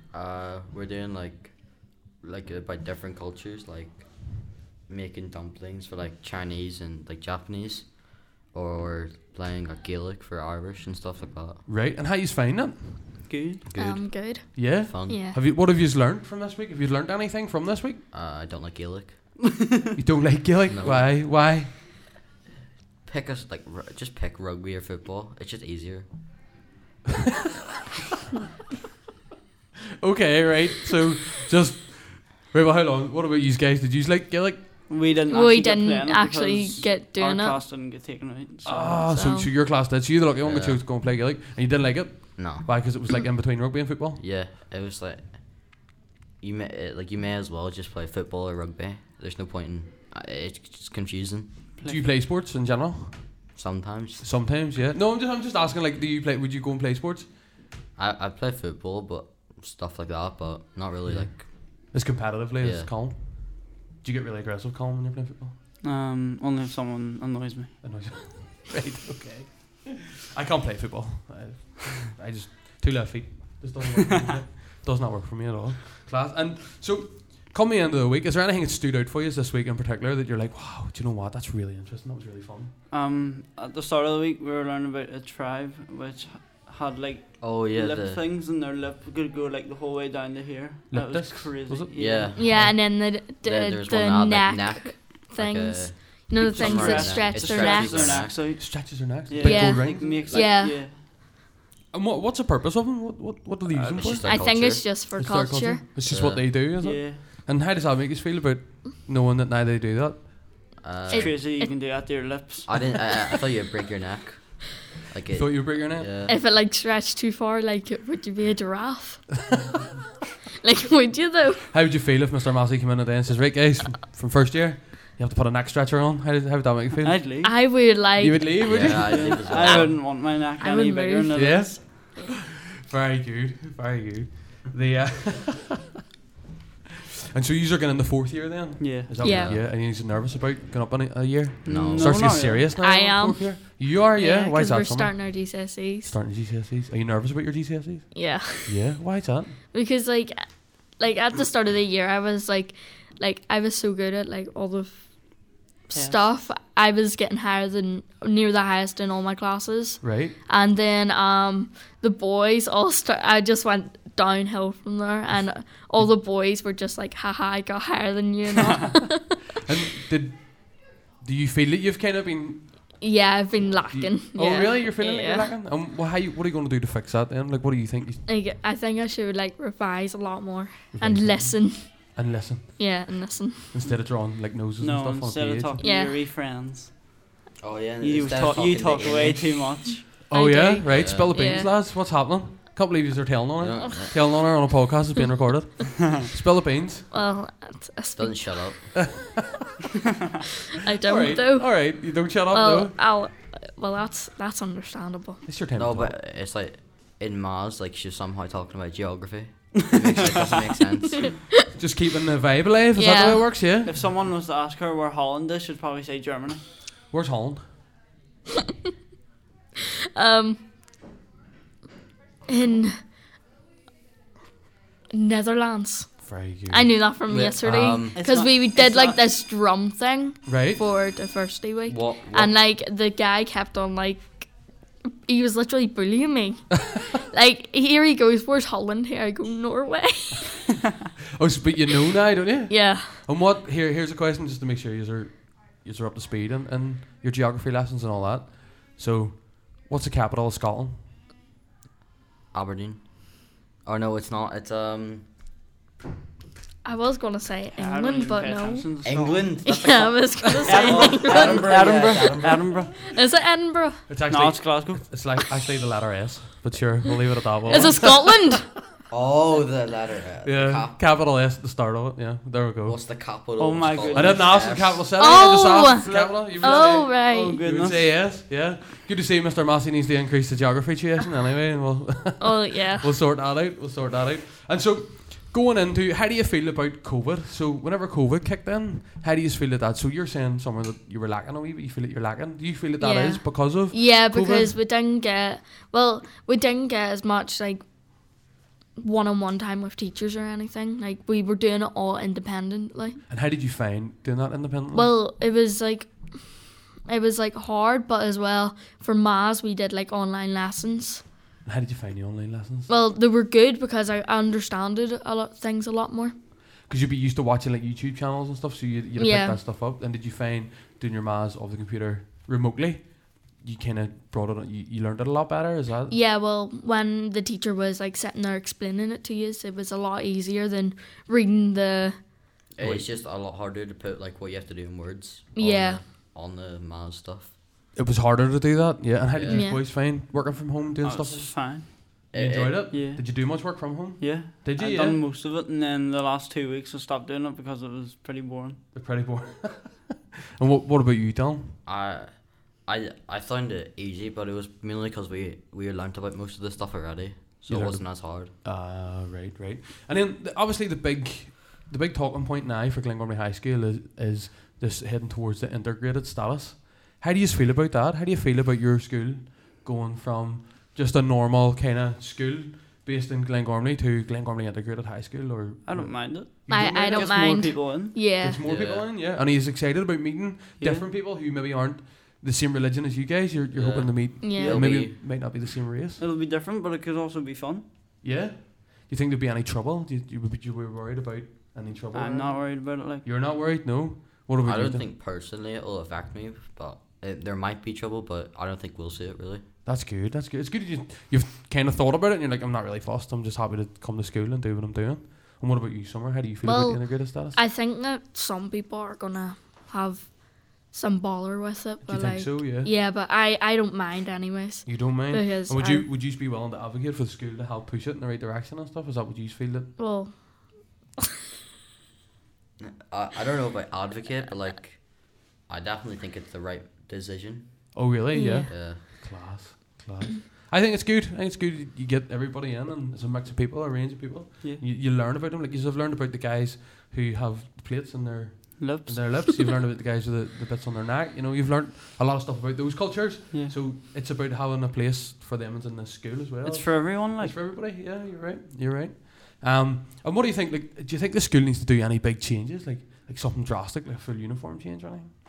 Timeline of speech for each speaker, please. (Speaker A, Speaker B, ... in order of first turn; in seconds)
Speaker A: 0.1-11.6, 13.6-14.3, 14.8-15.2, 18.1-19.3, 20.7-21.2, 23.0-26.1, 40.4-40.8, 42.4-42.7, 44.1-45.8, 46.4-51.6, 53.5-54.3, 58.0-61.5, 62.6-62.9, 87.4-88.2, 91.9-92.5, 93.4-98.6, 100.2-100.5, 104.0-104.9, 106.0-106.5, 110.8-111.3, 112.7-116.4, 128.6-130.0, 139.2-139.6, 141.7-142.4, 187.6-189.7, 190.9-191.3, 193.6-194.2, 198.1-198.9, 205.8-211.4, 227.3-228.2, 231.9-232.5, 252.5-255.3, 259.0-262.7, 269.1-271.0, 272.8-275.1, 332.7-337.5, 339.3-339.6, 342.3-342.9, 351.8-358.5, 378.6-379.1, 383.7-385.2, 394.6-399.7, 422.8-428.1, 428.7-429.0
Speaker B: 11.7-13.2, 14.5-18.0, 19.9-21.8, 30.0-34.6, 38.6-44.2, 51.8-53.3, 54.2-57.3, 61.0-65.5, 67.8-82.7, 90.9-92.8, 98.4-100.2, 101.9-110.4, 115.3-116.1, 121.7-127.2, 128.2-129.8, 131.3-132.2, 132.8-135.8, 137.3-149.6, 160.0-160.3, 169.6-173.0, 173.9-178.2, 180.9-183.0, 183.7-185.8, 190.0-197.1, 201.0-203.0, 205.4-206.2, 211.7-214.0, 217.1-217.7, 226.2-227.0, 230.4-230.8, 241.4-251.1, 264.1-268.1, 270.4-273.0, 274.1-294.8, 303.3-305.1, 311.6-312.9, 316.9-326.2, 332.8-333.1, 337.9-345.2, 348.9-351.8, 357.7-386.2, 388.2-395.0, 399.8-407.6, 412.0-412.9, 414.9-419.9, 427.9-455.3
Speaker C: 13.3-13.6, 34.9-39.1, 51.8-52.1, 65.8-67.7, 82.9-92.4, 96.3-101.0, 103.7-104.2, 106.8-107.2, 111.1-113.1, 127.0-127.5, 128.7-131.7, 138.8-139.3, 141.6-142.7, 155.9-156.2, 184.8-187.1, 188.0-190.0, 213.8-216.6, 228.1-229.2, 257.7-259.6, 260.6-262.9, 264.3-265.1, 273.6-274.9, 275.9-278.1, 341.0-342.3, 342.9-343.5, 344.2-348.8, 375.8-378.2, 380.8-381.0, 386.2-387.8, 392.1-393.2, 438.8-439.4, 446.6-447.6
Speaker D: 13.8-15.4, 35.3-37.6, 39.0-39.5, 92.3-98.3, 99.4-100.8, 104.2-105.8, 111.1-111.8, 116.3-119.3, 120.6-121.6, 127.4-128.6, 130.6-131.8, 139.2-139.5, 142.8-146.1, 148.1-148.8, 149.7-169.3, 173.0-175.5, 178.3-182.2, 182.8-183.7, 185.8-186.2, 190.3-191.7, 197.1-198.6, 200.8-205.4, 212.9-213.5, 220.1-220.6, 222.5-223.0, 225.1-240.7, 242.7-243.2, 256.8-258.9, 259.6-261.6, 263.0-264.0, 267.7-268.7, 275.2-277.6, 282.4-283.1, 293.0-303.2, 304.9-311.2, 312.9-316.3, 319.2-319.6, 326.1-332.2, 335.5-336.0, 339.5-339.8, 376.7-378.6, 384.4-384.8, 406.6-416.1, 420.0-421.0, 428.3-428.7